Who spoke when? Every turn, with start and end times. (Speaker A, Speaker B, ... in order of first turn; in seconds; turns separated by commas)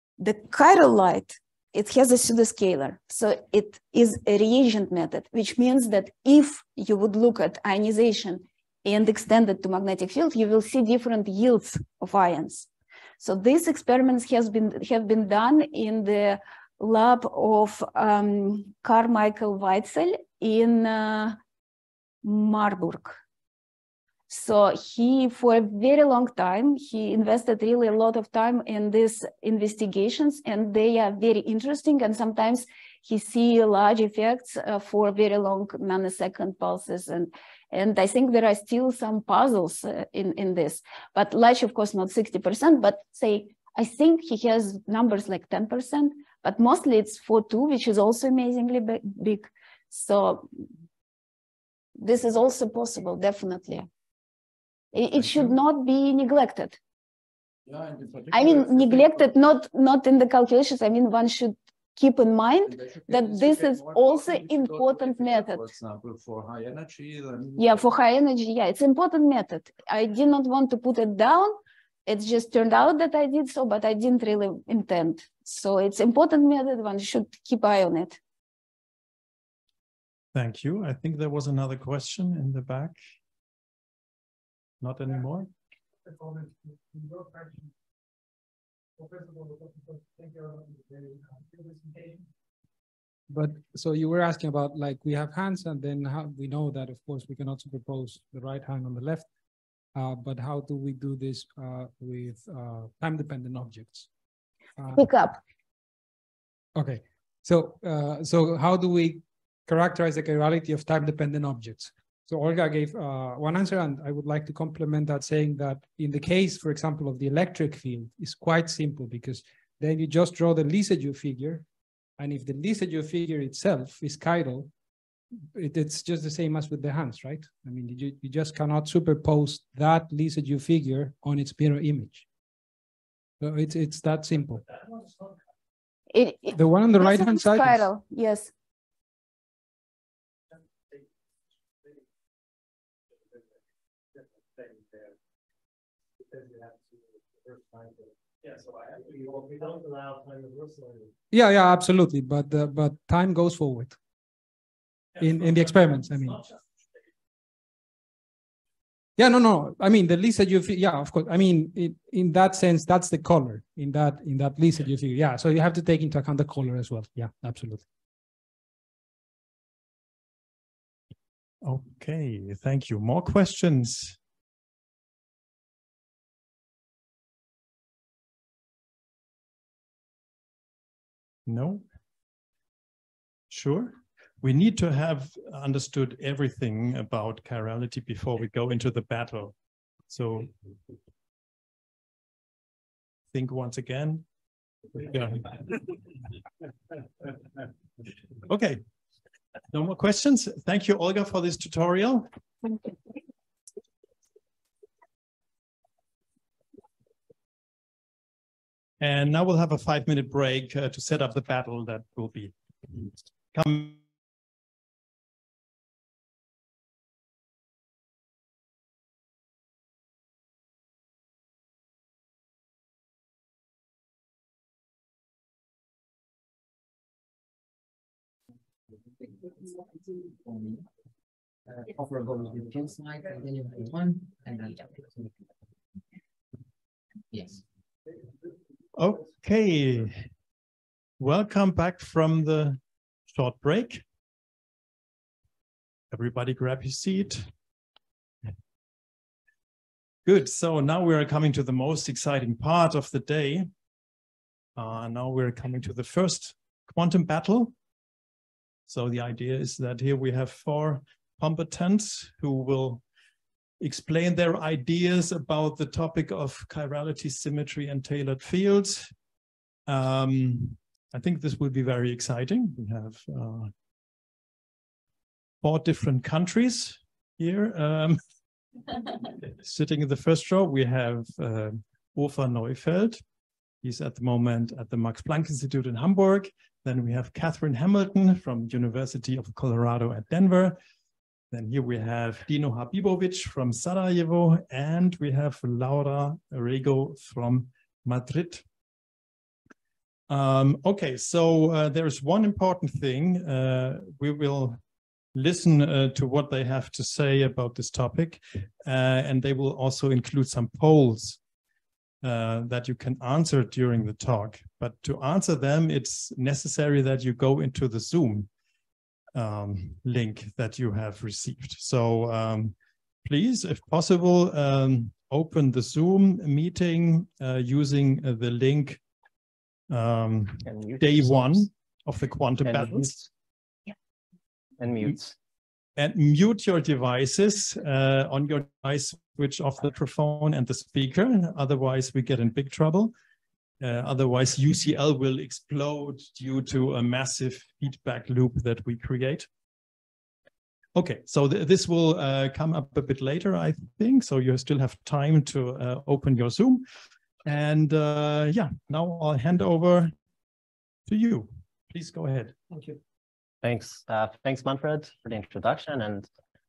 Speaker A: 0.2-12.7, Speaker A: 13.2-21.4, Speaker A: 22.2-23.2, Speaker A: 24.3-50.5, Speaker A: 52.0-53.9, Speaker A: 54.9-56.8, Speaker B: 55.2-55.5, Speaker B: 57.7-59.3, Speaker A: 58.3-65.7, Speaker B: 62.6-67.8, Speaker A: 67.6-78.2, Speaker C: 80.3-83.0, Speaker C: 84.8-85.5, Speaker D: 93.3-99.3, Speaker D: 99.9-104.1, Speaker D: 104.8-105.0, Speaker A: 104.9-105.4, Speaker D: 106.8-121.6, Speaker D: 122.2-124.7, Speaker D: 125.5-132.2, Speaker D: 133.4-134.6, Speaker A: 136.1-138.5, Speaker D: 136.5-137.9, Speaker D: 151.3-154.0, Speaker C: 155.2-155.6, Speaker D: 155.2-156.4, Speaker D: 159.2-167.8, Speaker C: 171.6-174.2, Speaker C: 181.4-181.8, Speaker C: 183.5-189.5, Speaker C: 190.1-190.5, Speaker C: 193.3-194.2, Speaker C: 194.9-195.8, Speaker C: 198.4-198.8, Speaker C: 199.7-202.3, Speaker C: 209.0-213.0, Speaker C: 213.5-214.0, Speaker E: 229.4-230.8, Speaker E: 231.7-235.3, Speaker E: 237.3-237.6, Speaker C: 238.9-240.2, Speaker C: 241.2-244.0, Speaker C: 246.1-247.5, Speaker C: 250.2-253.7, Speaker C: 254.8-257.7, Speaker C: 258.9-263.0, Speaker C: 263.8-269.1, Speaker C: 269.9-273.7, Speaker C: 275.6-278.2, Speaker C: 279.4-283.2, Speaker C: 283.8-290.8, Speaker C: 291.5-298.6, Speaker C: 300.3-304.8, Speaker C: 305.3-311.4, Speaker C: 312.2-318.5, Speaker C: 319.3-329.0, Speaker C: 329.9-333.1, Speaker F: 330.6-331.6, Speaker F: 332.6-333.2, Speaker F: 334.8-335.3, Speaker C: 336.0-343.1, Speaker C: 343.8-349.5, Speaker C: 350.9-356.9, Speaker C: 357.4-360.1, Speaker C: 361.1-362.6, Speaker E: 362.7-362.9, Speaker F: 363.6-366.3